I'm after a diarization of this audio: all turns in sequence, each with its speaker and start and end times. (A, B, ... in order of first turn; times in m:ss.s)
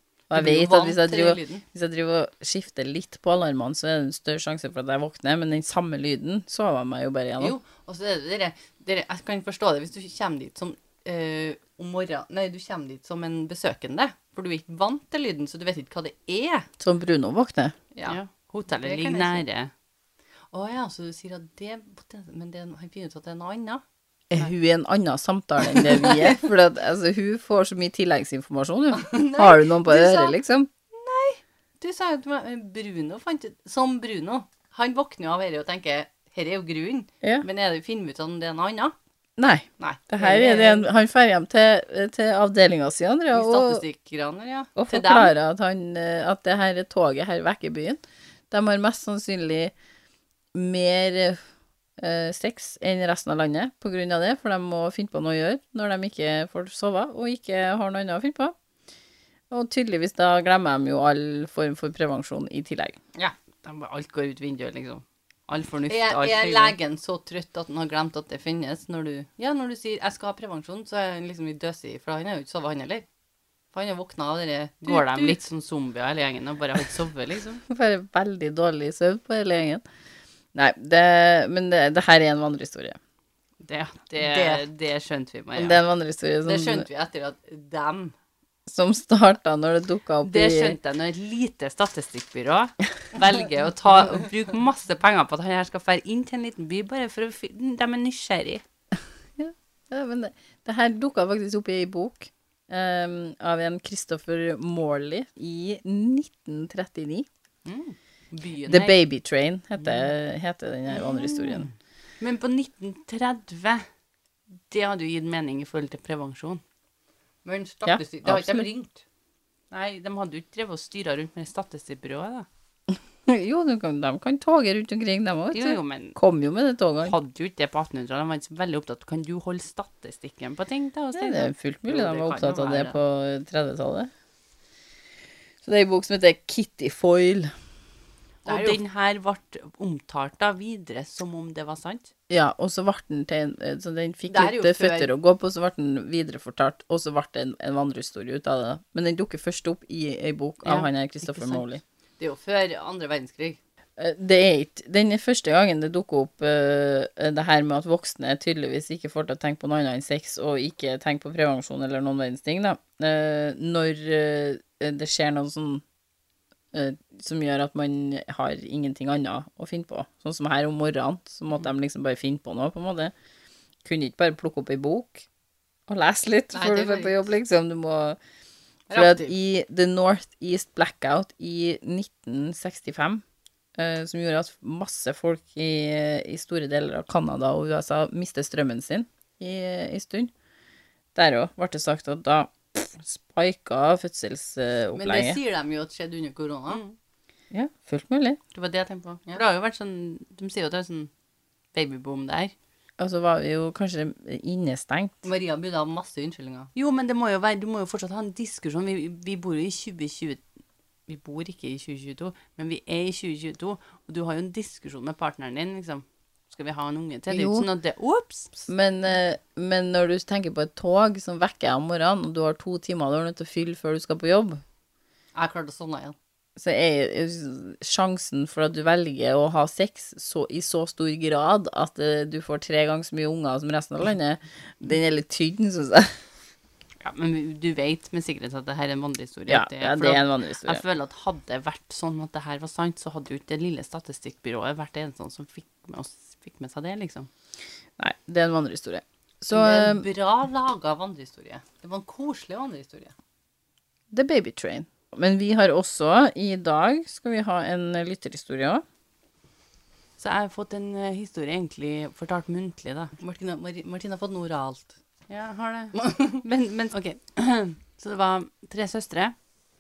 0:00.3-0:01.6 A
0:00.3-0:07.6 B
0:07.4-0:16.7 A
0:16.8-0:17.8 B
0:17.9-0:19.4 A
0:18.0-0:19.7 C
0:20.5-0:23.8 A
0:24.3-0:30.7 B
0:25.6-0:26.4 A
0:28.9-0:30.4 A
0:30.9-0:39.0 A
0:39.4-0:43.8 B
0:39.8-0:40.9 A
0:43.3-0:45.3 A
0:44.8-0:49.7 B
0:50.5-0:51.4 B
0:52.0-0:58.5 B
0:59.5-1:03.0 B
1:03.2-1:06.8 C
1:05.9-1:13.0 A
1:13.7-1:15.4 A
1:14.8-1:17.6 C
1:17.7-1:19.8 B
1:20.5-1:23.0 B
1:23.6-1:25.8 C
1:24.2-1:24.6 A
1:25.6-1:26.9 B
1:26.4-1:28.1 A
1:28.7-1:30.8 B
1:30.2-1:38.6 C
1:39.4-1:47.3 B
1:47.6-1:48.9 A
1:48.7-1:51.7 B
1:51.0-1:51.6 A
1:52.2-1:53.9 C
1:54.7-1:56.6 C
1:57.4-1:59.0 A
1:57.9-1:58.7 B
1:59.7-2:02.5 C
2:03.3-2:07.1 B
2:05.5-2:06.2 C
2:07.0-2:13.0 C
2:11.1-2:14.1 B
2:15.6-2:17.5 B
2:18.4-2:18.8 A
2:18.4-2:22.1 C
2:22.3-2:31.8 B
2:24.3-2:25.1 A
2:30.6-2:31.6 C
2:32.2-2:33.6 A
2:34.0-2:45.8 B
2:46.7-2:53.1 B
2:53.8-2:55.3 B
2:55.9-2:58.2 B
2:56.5-2:57.3 A
2:58.9-2:59.3 A
2:58.9-3:03.2 B
3:03.8-3:10.3 B
3:11.1-3:15.4 B
3:15.0-3:16.8 A
3:17.5-3:18.4 B
3:18.5-3:21.1 C
3:21.7-3:22.5 C
3:23.0-3:25.1 B
3:25.2-3:26.7 A
3:26.8-3:30.4 C
3:31.1-3:38.6 C
3:37.3-3:37.7 B
3:38.7-3:44.6 B
3:45.4-3:46.1 A
3:46.6-3:56.2 B
3:57.0-4:07.3 C
3:59.5-4:00.8 B
4:08.0-4:10.1 B
4:09.5-4:13.1 A
4:14.1-4:18.8 B
4:20.2-4:23.1 C
4:23.2-4:24.9 A
4:25.3-4:29.4 C
4:26.0-4:26.4 A